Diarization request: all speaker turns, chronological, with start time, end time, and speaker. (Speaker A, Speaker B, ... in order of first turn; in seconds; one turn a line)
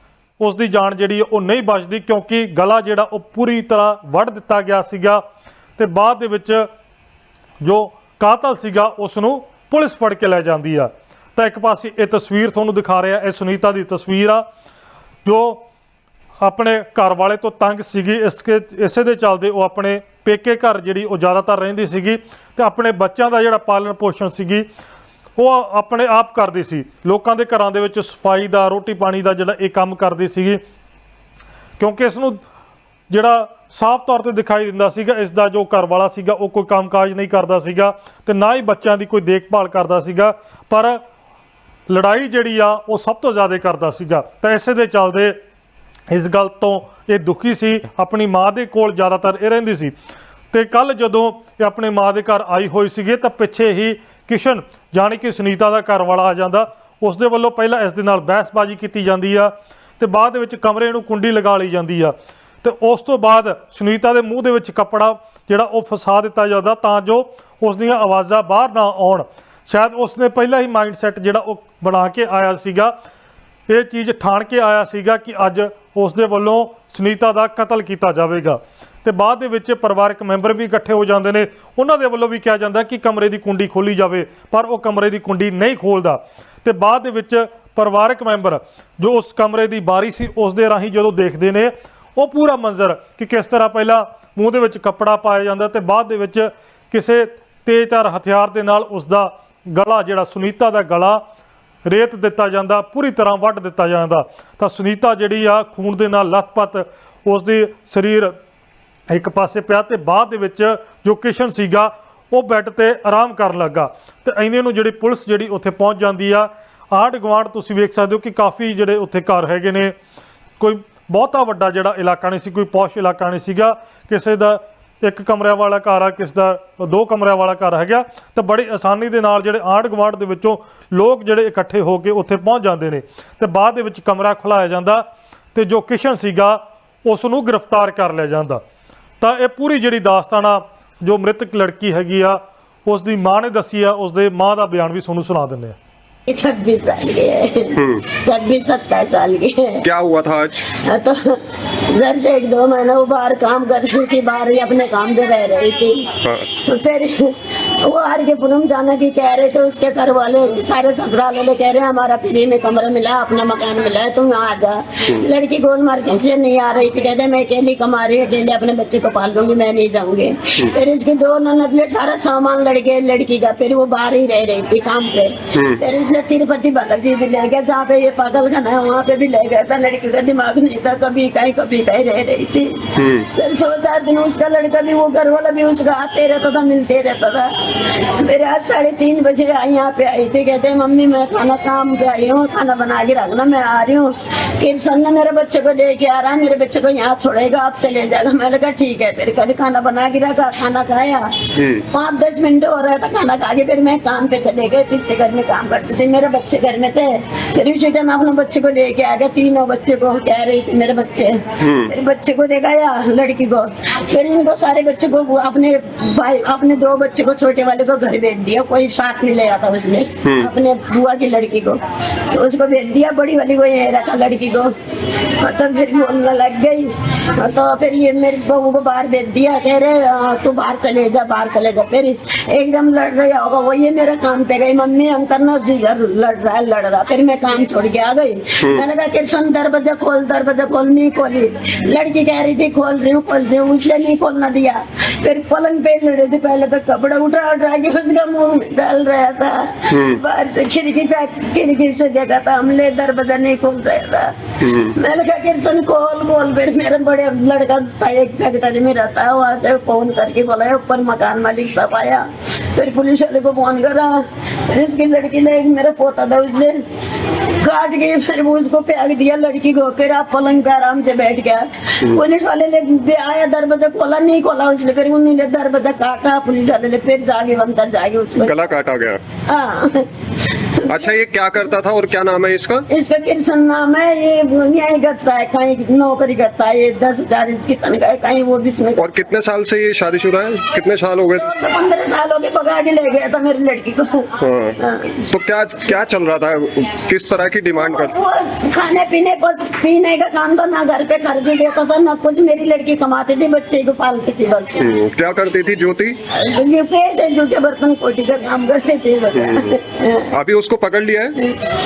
Speaker A: 0.4-5.2
Speaker A: 5.8-6.7
Speaker A: 7.6-14.4
Speaker A: 15.2-15.6
Speaker A: 16.4-24.6
Speaker A: 25.4-30.6
Speaker A: 31.8-32.4
Speaker A: 33.1-41.0
Speaker A: 41.9-45.3
Speaker A: 46.1-49.9
Speaker A: 50.5-72.9
Speaker A: 73.7-101.2
Speaker A: 101.8-108.3
Speaker A: 109.1-119.9
Speaker A: 120.6-138.6
Speaker A: 139.2-145.8
Speaker B: 146.3-149.8
Speaker C: 147.7-148.0
Speaker C: 149.8-150.7
Speaker B: 150.8-151.4
Speaker B: 151.9-187.5
Speaker C: 175.5-175.8
Speaker C: 183.0-183.3
Speaker B: 188.2-201.3
Speaker C: 201.6-201.8
Speaker B: 201.9-221.8
Speaker C: 211.6-211.9
Speaker B: 222.3-224.7
Speaker B: 225.4-264.2
Speaker C: 249.9-250.2
Speaker C: 254.6-254.9
Speaker B: 264.7-266.8
Speaker B: 267.6-278.7
Speaker C: 278.4-279.2
Speaker B: 279.5-280.1
Speaker B: 280.8-281.1
Speaker C: 280.9-282.8
Speaker B: 282.9-289.0
Speaker C: 289.0-291.5
Speaker B: 291.3-295.3
Speaker C: 294.4-294.8
Speaker C: 295.3-298.1
Speaker B: 297.8-304.9
Speaker C: 304.8-306.2
Speaker B: 306.3-310.3
Speaker C: 309.3-309.7
Speaker C: 310.3-311.3